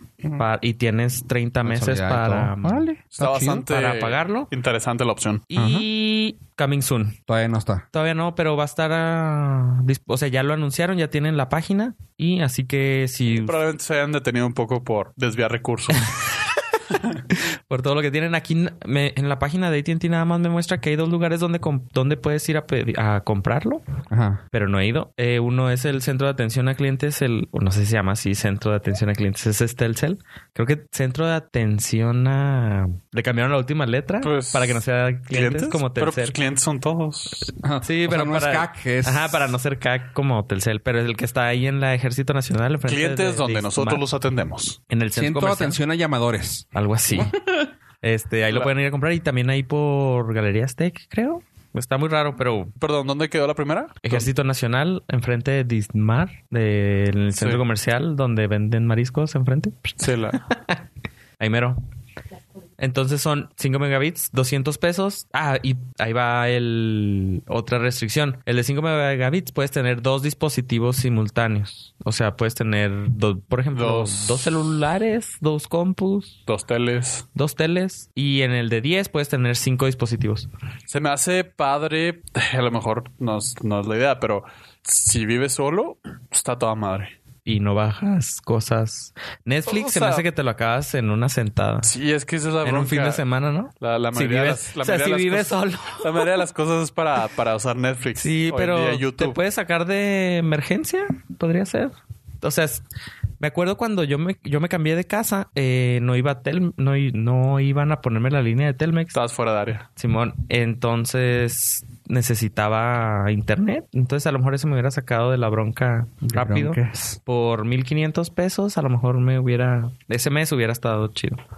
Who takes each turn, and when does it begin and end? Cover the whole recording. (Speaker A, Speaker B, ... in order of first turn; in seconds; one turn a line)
Speaker A: 0.4-2.9
Speaker B: 1.6-3.7
Speaker C: 3.2-5.5
Speaker A: 3.7-4.5
Speaker A: 5.5-7.2
Speaker B: 5.5-5.8
Speaker B: 7.3-7.9
Speaker A: 7.9-13.6
Speaker C: 13.4-16.1
Speaker A: 16.1-23.8
Speaker B: 24.1-24.4
Speaker A: 24.5-36.4
Speaker C: 34.2-37.5
Speaker B: 37.6-39.5
Speaker A: 37.8-44.0
Speaker C: 42.9-44.8
Speaker A: 44.9-45.8
Speaker B: 45.1-47.7
Speaker A: 46.7-47.3
Speaker A: 48.0-52.7
Speaker C: 52.8-54.3
Speaker A: 54.0-59.9
Speaker C: 60.0-60.4
Speaker A: 61.4-61.8
Speaker A: 62.8-76.4
Speaker C: 73.7-74.5
Speaker C: 76.5-77.2
Speaker A: 77.3-80.5
Speaker C: 80.9-87.1
Speaker A: 87.5-91.9
Speaker C: 89.7-90.3
Speaker C: 91.8-93.2
Speaker A: 92.6-96.3
Speaker C: 93.8-99.4
Speaker A: 98.2-102.8
Speaker A: 103.4-109.2
Speaker C: 109.1-109.9
Speaker A: 110.0-121.4
Speaker B: 116.2-117.2